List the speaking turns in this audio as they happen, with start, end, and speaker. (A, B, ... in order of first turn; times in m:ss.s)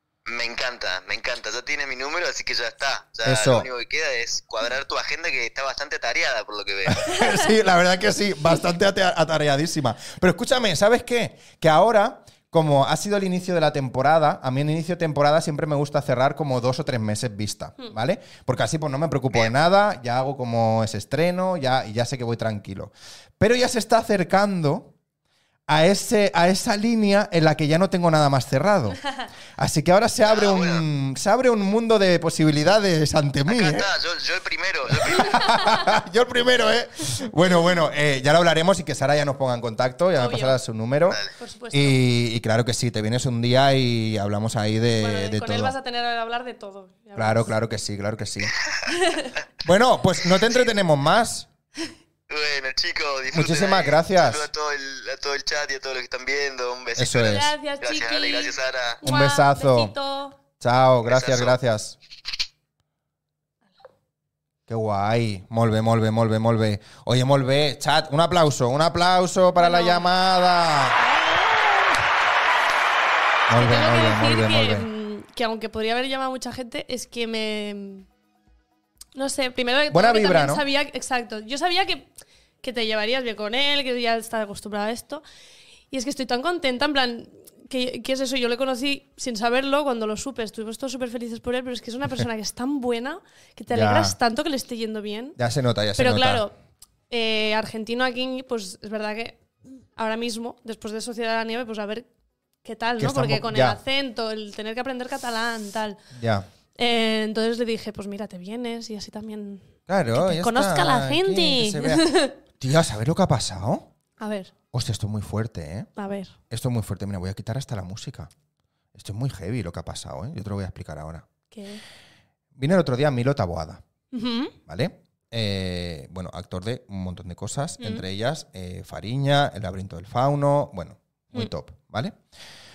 0:00.2-0:07.2 A
0:03.2-0:03.7 B
0:06.9-0:24.9 B
0:25.7-0:29.0 B
0:29.6-0:33.9 B
0:30.3-0:30.8 A
0:33.5-0:35.8 A
0:34.9-0:41.2 B
0:40.2-0:40.6 C
0:41.1-0:41.3 A
0:41.4-0:42.0 C
0:41.7-0:45.7 B
0:45.0-0:47.5 C
0:47.2-0:48.5 B
0:48.9-0:49.3 C
0:49.6-0:51.5 B
0:52.3-0:59.0 A
0:53.3-0:54.5 B
0:57.0-0:57.5 B
0:57.1-1:00.4 C
0:59.0-0:59.9 B
1:00.6-1:02.0 B
1:01.0-1:01.6 A
1:04.7-1:11.0 B
1:09.6-1:10.1 C
1:11.0-1:12.0 C
1:13.5-1:14.9 B
1:13.6-1:18.1 C
1:19.1-1:25.2 C
1:19.9-1:20.6 B
1:25.9-1:35.4 C
1:33.7-1:34.2 B
1:35.4-1:36.4 B
1:36.0-1:36.5 C
1:37.1-1:42.1 C
1:42.6-1:46.0 C
1:43.0-1:43.8 B
1:46.1-1:46.4 B
1:46.8-1:52.4 C
1:49.9-1:53.9 B
1:54.2-1:54.5 C
1:54.7-1:55.9 B
1:56.0-1:56.3 C
1:56.5-1:58.3 B
1:58.9-2:01.2 B
2:01.5-2:01.8 C
2:02.5-2:03.8 B
2:04.1-2:04.5 C
2:04.7-2:12.2 B